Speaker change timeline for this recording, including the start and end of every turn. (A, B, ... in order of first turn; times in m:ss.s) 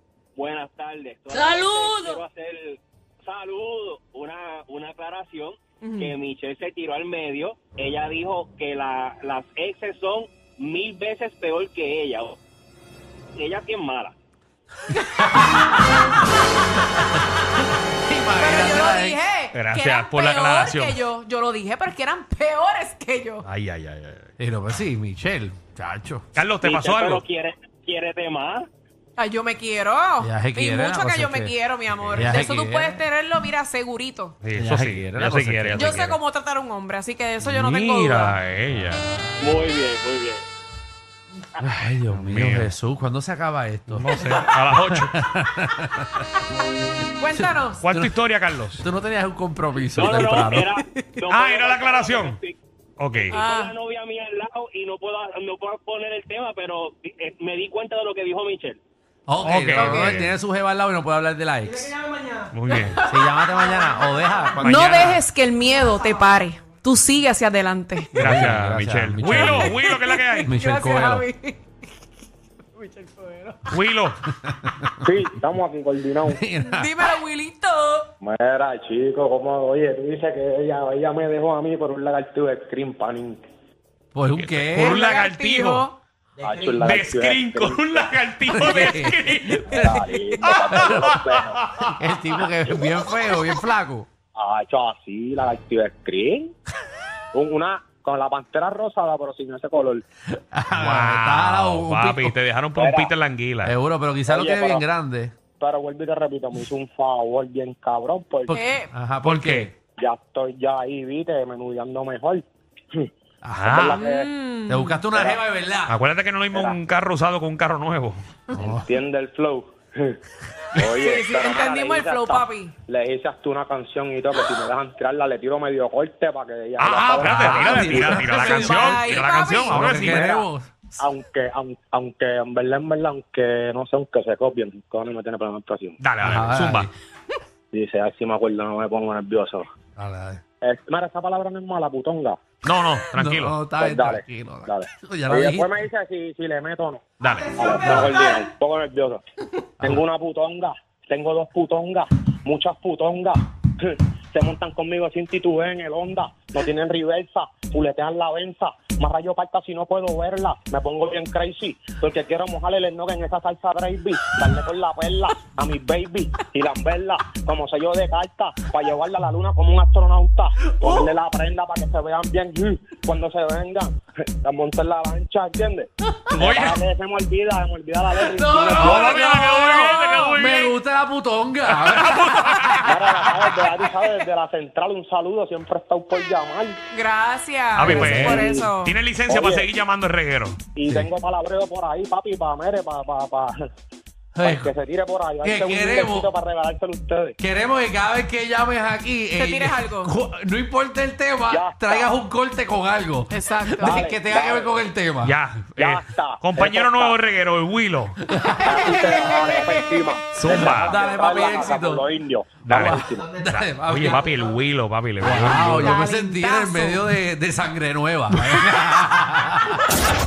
0:00.4-0:12.4 A
0:01.4-0:01.8 B
0:05.8-0:06.1 B
0:13.4-0:14.1 A
0:14.9-0:15.4 B
0:17.9-0:19.2 C
0:18.4-0:23.4 B
0:19.5-0:21.0 D
0:23.4-0:24.3 D
0:24.4-0:26.2 C
0:26.3-0:27.2 D
0:26.6-0:28.7 A
0:29.2-0:34.4 B
0:30.2-0:31.5 C
0:31.9-0:32.4 D
0:32.1-0:33.0 C
0:34.4-0:36.2 D
0:34.6-0:35.9 C
0:35.7-0:38.4 B
0:37.5-0:39.0 D
0:38.7-0:39.4 C
0:39.4-0:40.4 A
0:41.6-0:46.2 C
0:42.1-0:42.7 D
0:43.9-0:45.1 D
0:47.2-0:47.8 B
0:47.3-0:48.2 C
0:47.8-0:48.8 D
0:48.8-0:50.7 C
0:49.9-0:52.6 A
0:50.9-0:51.2 B
0:51.3-0:52.4 D
0:53.0-0:53.3 D
0:53.1-0:58.8 A
0:53.3-0:53.7 B
0:59.3-1:01.9 C
0:59.4-1:00.3 D
0:59.7-1:00.2 B
1:02.5-1:03.0 D
1:03.0-1:04.8 C
1:04.6-1:05.2 D
1:04.6-1:08.2 B
1:08.1-1:10.5 D
1:08.2-1:09.8 C
1:09.2-1:11.6 B
1:10.4-1:11.2 C
1:12.7-1:13.6 B
1:13.7-1:14.2 D
1:14.4-1:15.0 C
1:15.0-1:16.4 E
1:16.3-1:17.0 C
1:16.6-1:18.1 B
1:18.2-1:23.4 E
1:24.1-1:25.0 C
1:24.4-1:25.8 D
1:24.8-1:26.0 B
1:26.4-1:28.2 E
1:26.8-1:29.8 D
1:28.5-1:30.0 C
1:29.7-1:31.6 E
1:30.4-1:32.0 D
1:30.7-1:31.1 C
1:32.0-1:34.1 C
1:34.3-1:36.5 E
1:37.3-1:40.0 E
1:40.3-1:42.3 C
1:40.7-1:43.7 D
1:42.7-1:43.1 E
1:43.6-1:45.3 C
1:44.3-1:44.8 E
1:45.6-1:48.6 E
1:48.5-1:48.9 B
1:48.9-1:49.7 C
1:49.2-1:49.7 D
1:50.0-1:54.3 E
1:53.4-1:53.9 C
1:53.6-1:54.0 D
1:53.9-1:55.0 B
1:54.7-1:56.0 C
1:55.1-1:55.4 E
1:55.9-1:58.2 D
1:56.5-1:56.8 E
1:58.5-1:58.8 C
1:58.5-2:00.2 E
2:00.7-2:08.4 E
2:00.8-2:02.7 B
2:06.8-2:10.3 D
2:07.2-2:10.7 C
2:08.4-2:10.4 B
2:10.0-2:10.4 E
2:11.0-2:16.0 E
2:16.0-2:16.9 D
2:16.2-2:16.9 C
2:17.7-2:19.6 E
2:20.0-2:20.4 C
2:20.6-2:22.4 E
2:22.6-2:23.6 D
2:23.1-2:25.8 C
2:23.8-2:29.2 E
2:27.2-2:27.6 D
2:27.8-2:28.2 C
2:29.8-2:59.2 E
2:50.8-2:51.1 C
2:56.4-2:56.8 D
2:58.2-3:03.5 C
2:58.7-3:00.4 B
2:58.8-3:00.7 D
3:01.8-3:02.9 D
3:02.8-3:06.8 E
3:06.9-3:09.0 B
3:07.8-3:08.7 E
3:07.8-3:08.5 C
3:08.7-3:10.6 D
3:09.3-3:09.7 E
3:10.7-3:13.5 E
3:14.3-3:14.7 C
3:14.4-3:17.4 E
3:15.4-3:16.3 C
3:17.4-3:25.4 C
3:19.4-3:20.1 B
3:21.5-3:22.1 E
3:23.3-3:24.0 B
3:23.8-3:24.8 E
3:25.2-3:28.2 D
3:25.8-3:27.2 E
3:28.2-3:28.9 C
3:28.6-3:33.4 E
3:28.7-3:29.8 B
3:30.3-3:31.0 D
3:30.7-3:32.0 C
3:32.6-3:36.0 D
3:32.6-3:34.2 C
3:35.2-3:39.8 C
3:35.5-3:37.1 B